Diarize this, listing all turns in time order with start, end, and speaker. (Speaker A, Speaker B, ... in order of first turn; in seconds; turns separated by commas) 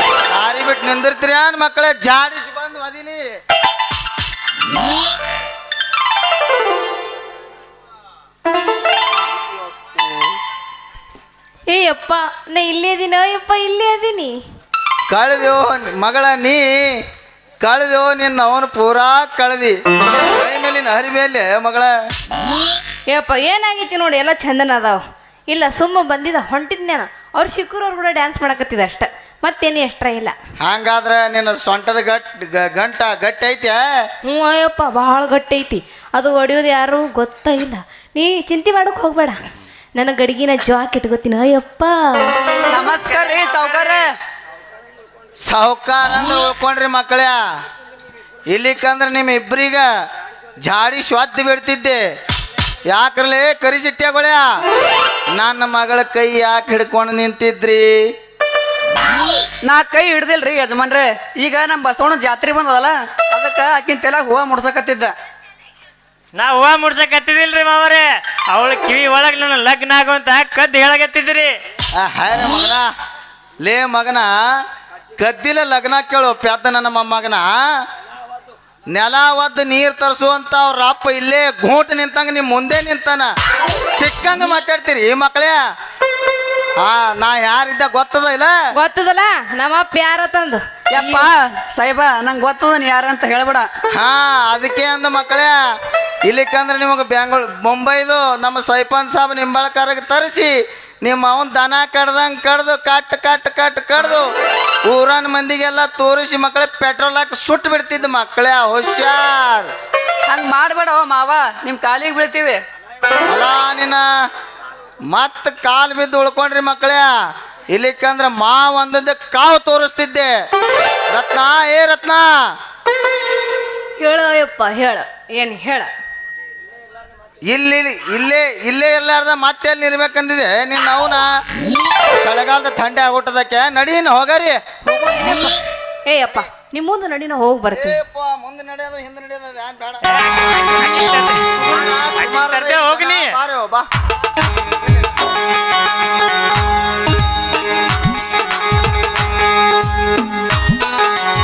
Speaker A: 0.3-3.2, Speaker B: 11.7-14.4, Speaker A: 15.1-17.0, Speaker A: 17.6-19.8, Speaker A: 20.3-21.9, Speaker B: 23.1-30.3, Speaker A: 30.6-33.8, Speaker B: 34.3-39.4, Speaker B: 40.0-42.4, Speaker C: 42.7-44.0, Speaker A: 45.5-47.4, Speaker A: 48.5-49.9, Speaker A: 50.6-52.0, Speaker A: 52.9-54.6, Speaker A: 55.4-58.0, Speaker C: 59.6-65.1, Speaker D: 66.3-71.5, Speaker A: 72.0-72.9, Speaker A: 73.6-74.3, Speaker A: 75.2-77.6, Speaker A: 78.9-83.3, Speaker A: 83.9-85.6, Speaker A: 86.8-88.5, Speaker B: 88.8-91.3, Speaker C: 91.0-93.7, Speaker A: 93.9-95.6, Speaker A: 96.2-104.3, Speaker A: 104.9-109.7, Speaker C: 110.3-112.6, Speaker A: 113.3-114.0, Speaker A: 115.1-117.1, Speaker A: 117.7-120.3, Speaker A: 121.1-122.3, Speaker B: 124.0-125.9, Speaker A: 127.5-131.3, Speaker A: 132.2-134.6, Speaker B: 134.9-138.0, Speaker A: 137.7-140.0, Speaker D: 140.1-141.4, Speaker A: 141.6-143.9, Speaker D: 142.2-143.3